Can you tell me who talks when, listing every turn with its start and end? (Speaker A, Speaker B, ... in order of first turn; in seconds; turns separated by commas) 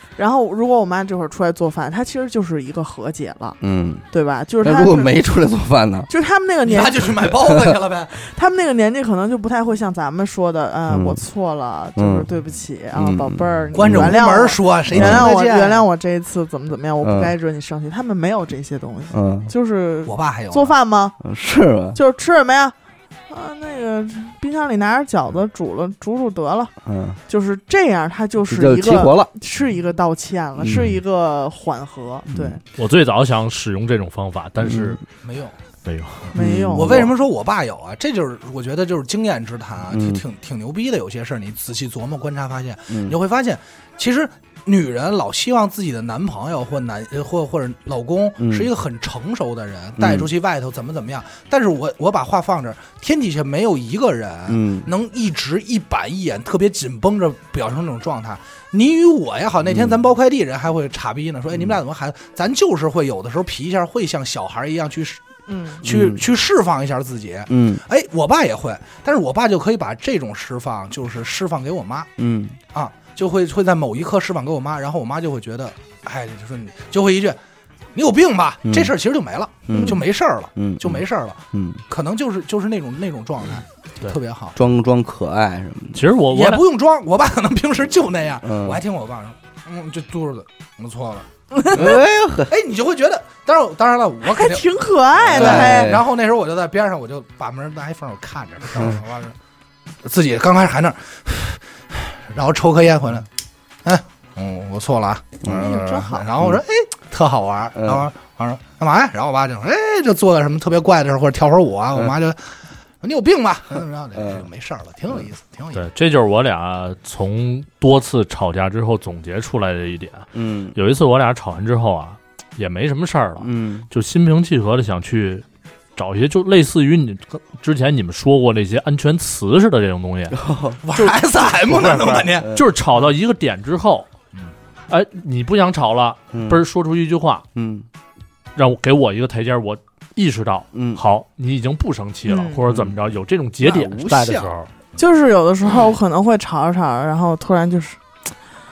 Speaker A: 0.2-3.6, Speaker B: 3.6-4.0, Speaker A: 4.1-5.1, Speaker B: 4.6-6.1, Speaker A: 6.1-7.3, Speaker C: 6.7-8.2, Speaker A: 8.1-21.2, Speaker B: 10.9-11.2, Speaker B: 11.9-12.3, Speaker B: 12.9-14.2, Speaker C: 13.7-15.8, Speaker B: 14.9-15.3, Speaker B: 17.0-17.3, Speaker B: 19.1-19.5, Speaker C: 20.1-20.7, Speaker B: 21.2-22.0, Speaker A: 21.9-22.7, Speaker A: 23.3-26.7, Speaker B: 26.8-27.2, Speaker A: 27.3-32.6, Speaker B: 28.5-29.3, Speaker B: 30.6-31.0, Speaker D: 30.6-31.0, Speaker B: 32.3-32.6, Speaker D: 32.7-35.0, Speaker B: 34.6-35.0, Speaker C: 35.2-35.5, Speaker D: 35.8-36.3, Speaker B: 36.3-37.1, Speaker A: 36.3-37.1, Speaker C: 36.7-65.2, Speaker B: 39.9-40.2, Speaker B: 42.9-43.1, Speaker B: 48.4-48.7, Speaker B: 50.0-50.3, Speaker B: 54.5-54.9, Speaker B: 59.7-60.0, Speaker A: 65.5-65.8, Speaker C: 65.8-72.1, Speaker B: 65.8-66.2, Speaker B: 67.5-67.8, Speaker B: 72.2-72.6, Speaker C: 72.7-77.4, Speaker C: 77.9-84.6, Speaker B: 78.6-78.9, Speaker B: 79.7-80.0, Speaker A: 79.7-80.0, Speaker B: 80.5-81.8, Speaker B: 84.5-86.0, Speaker D: 85.9-86.6, Speaker C: 86.3-91.9, Speaker B: 88.4-88.8, Speaker A: 91.5-92.0, Speaker B: 91.7-92.5, Speaker C: 92.5-94.7, Speaker A: 94.3-96.0, Speaker B: 95.2-96.0, Speaker C: 95.3-99.3, Speaker C: 100.0-103.3, Speaker C: 103.8-115.8, Speaker B: 105.4-105.7, Speaker A: 105.4-106.3, Speaker B: 107.7-108.0, Speaker B: 114.1-114.5, Speaker D: 115.7-125.4, Speaker B: 120.3-120.8, Speaker B: 123.4-123.9, Speaker D: 126.0-130.4, Speaker B: 130.3-132.7, Speaker C: 130.8-132.5, Speaker D: 132.4-134.1, Speaker D: 134.9-137.4, Speaker B: 136.3-136.6, Speaker B: 137.6-137.9, Speaker D: 138.6-144.7, Speaker B: 140.7-141.0, Speaker A: 142.3-142.6, Speaker B: 142.7-143.0, Speaker B: 143.7-144.4, Speaker A: 145.0-148.0